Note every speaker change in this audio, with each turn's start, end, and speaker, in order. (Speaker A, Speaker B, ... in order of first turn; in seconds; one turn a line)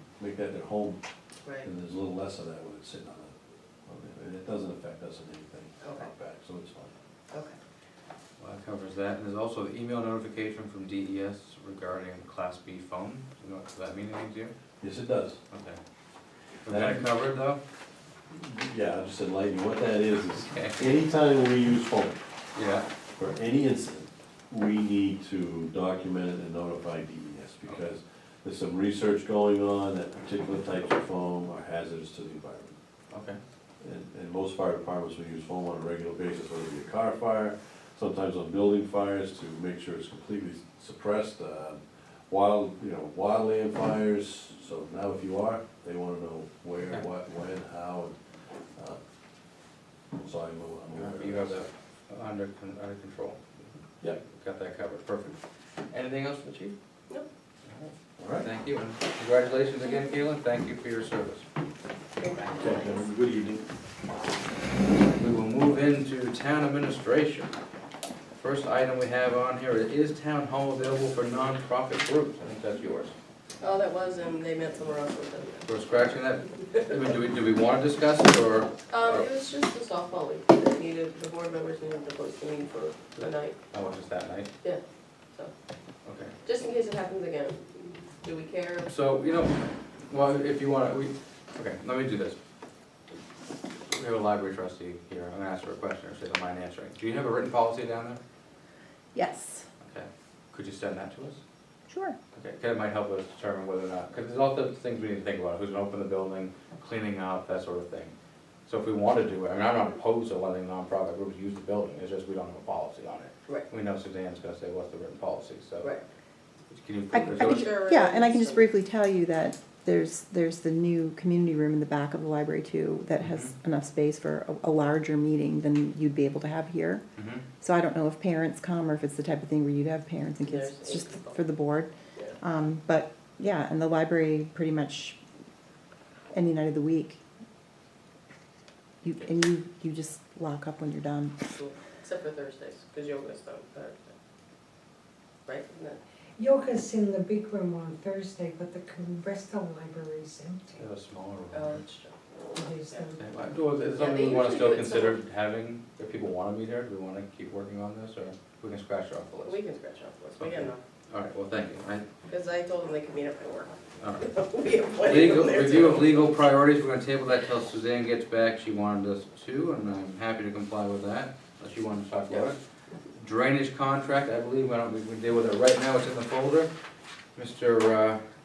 Speaker A: 0.2-1.0
Speaker B: 1.4-1.7
Speaker A: 1.6-6.9
Speaker B: 5.8-6.1
Speaker B: 7.3-7.6
Speaker C: 8.4-14.5
Speaker A: 14.8-15.4
Speaker C: 15.5-15.8
Speaker A: 16.6-17.1
Speaker C: 16.6-17.6
Speaker A: 18.3-22.2
Speaker C: 20.4-20.8
Speaker C: 22.5-22.9
Speaker A: 23.2-32.8
Speaker C: 33.1-33.4
Speaker A: 33.8-48.1
Speaker A: 50.1-51.7
Speaker C: 50.9-53.4
Speaker C: 54.1-56.8
Speaker C: 57.6-61.5
Speaker A: 58.2-58.5
Speaker B: 62.2-63.0
Speaker A: 62.5-63.6
Speaker C: 65.1-67.5
Speaker C: 68.3-73.1
Speaker B: 73.6-75.6
Speaker C: 75.6-79.3
Speaker B: 78.9-83.6
Speaker C: 83.2-84.5
Speaker C: 86.0-86.3
Speaker B: 86.4-88.9
Speaker C: 88.8-92.4
Speaker C: 93.9-98.2
Speaker D: 99.1-99.7
Speaker C: 99.8-101.4
Speaker D: 101.9-102.2
Speaker C: 102.3-108.1
Speaker C: 108.7-115.9
Speaker C: 116.7-117.8
Speaker D: 117.1-127.0
Speaker B: 117.2-118.7
Speaker C: 123.2-123.5
Speaker C: 127.2-127.4
Speaker D: 127.6-135.2
Speaker B: 130.4-131.4
Speaker D: 136.3-137.2
Speaker D: 139.0-141.5
Speaker B: 141.5-144.1
Speaker B: 145.4-146.0
Speaker E: 146.4-150.8
Speaker C: 150.8-151.8
Speaker B: 151.5-152.2
Speaker E: 152.5-153.2
Speaker B: 152.7-153.1
Speaker C: 153.1-159.6
Speaker B: 153.9-155.2
Speaker B: 159.4-160.8
Speaker C: 160.4-162.0
Speaker B: 162.3-166.4
Speaker C: 164.0-164.3
Speaker C: 165.0-172.6
Speaker C: 173.2-176.7
Speaker C: 177.3-178.2